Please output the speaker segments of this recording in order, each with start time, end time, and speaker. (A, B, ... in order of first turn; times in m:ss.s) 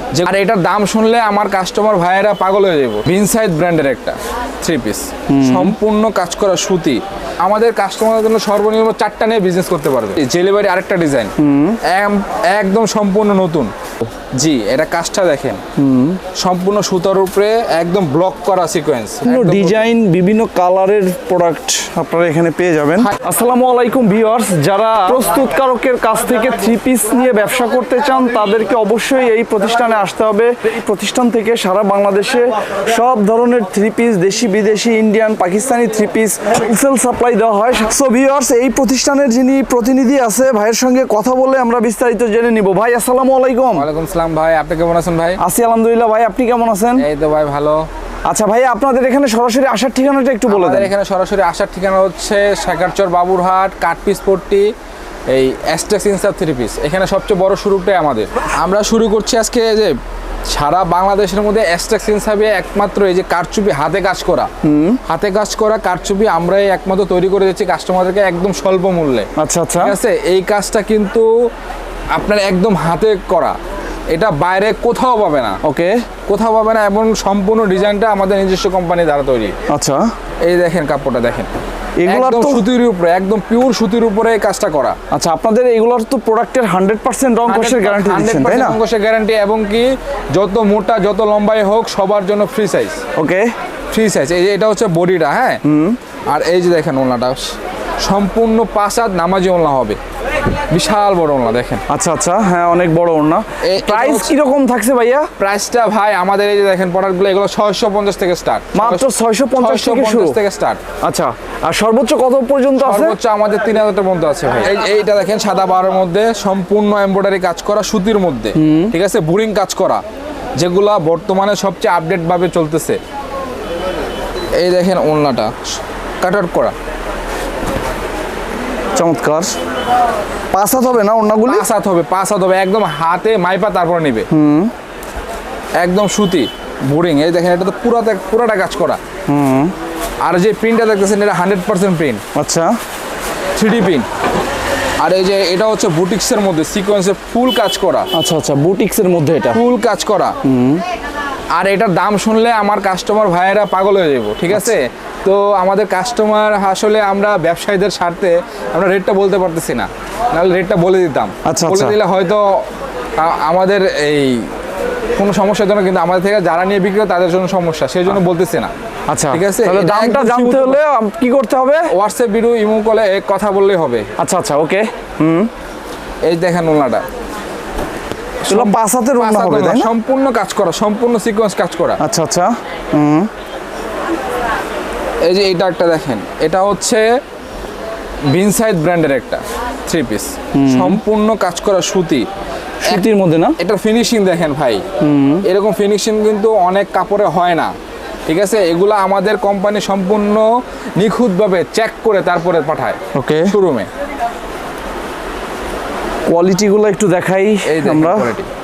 0:00.1-0:13.7 A
0:05.3-0:05.8 B
0:11.4-0:11.8 B
0:14.3-0:15.6 A
0:15.8-0:16.2 B
0:16.4-0:19.9 A
0:19.2-0:43.8 B
0:43.7-0:45.4 A
0:45.4-0:47.0 B
0:47.0-0:47.8 A
0:48.2-0:50.9 B
0:50.5-0:54.7 A
0:55.3-1:00.0 A
1:00.5-1:04.5 A
1:04.6-1:05.0 B
1:05.0-1:09.3 A
1:09.4-1:10.0 B
1:09.8-1:11.3 A
1:12.1-1:13.6 A
1:14.1-1:15.6 A
1:15.6-1:16.0 B
1:16.3-1:19.5 A
1:19.7-1:20.1 B
1:20.4-1:21.5 A
1:22.0-1:22.6 B
1:22.1-1:25.0 A
1:25.1-1:28.8 B
1:27.5-1:33.0 A
1:33.2-1:33.5 B
1:33.9-1:35.6 A
1:35.6-1:36.0 B
1:36.3-1:40.0 A
1:40.7-1:41.8 A
1:41.9-1:45.3 B
1:43.6-1:44.3 A
1:45.4-1:50.8 A
1:48.7-1:50.4 B
1:51.0-1:53.2 B
1:52.8-2:00.0 A
1:58.6-1:58.9 B
2:00.6-2:03.0 A
2:04.6-2:05.5 A
2:06.2-2:06.7 A
2:09.0-2:09.5 B
2:10.5-2:11.6 B
2:11.5-2:14.3 A
2:14.3-2:14.7 B
2:15.8-2:19.0 A
2:19.3-2:19.7 B
2:20.2-2:22.2 A
2:22.3-2:22.8 B
2:23.6-2:24.1 A
2:25.0-2:28.1 A
2:28.1-2:29.6 B
2:29.5-2:30.4 A
2:30.4-2:30.8 B
2:31.5-2:42.6 A
2:41.4-2:42.0 B
2:43.2-2:44.5 A
2:45.2-2:48.7 A
2:49.1-2:51.9 B
2:49.3-2:50.8 A
2:51.9-2:54.0 A
2:54.2-2:55.5 B
2:56.2-2:57.0 A
2:58.4-3:02.0 A
2:58.5-2:59.9 B
3:02.0-3:03.3 B
3:05.2-3:07.1 A
3:08.3-3:12.2 A
3:10.5-3:11.0 B
3:12.8-3:13.6 B
3:13.6-3:14.8 A
3:15.0-3:15.4 B
3:15.4-3:17.7 A
3:18.3-3:23.9 A
3:23.1-3:23.5 B
3:26.3-3:28.3 B
3:27.6-3:28.5 A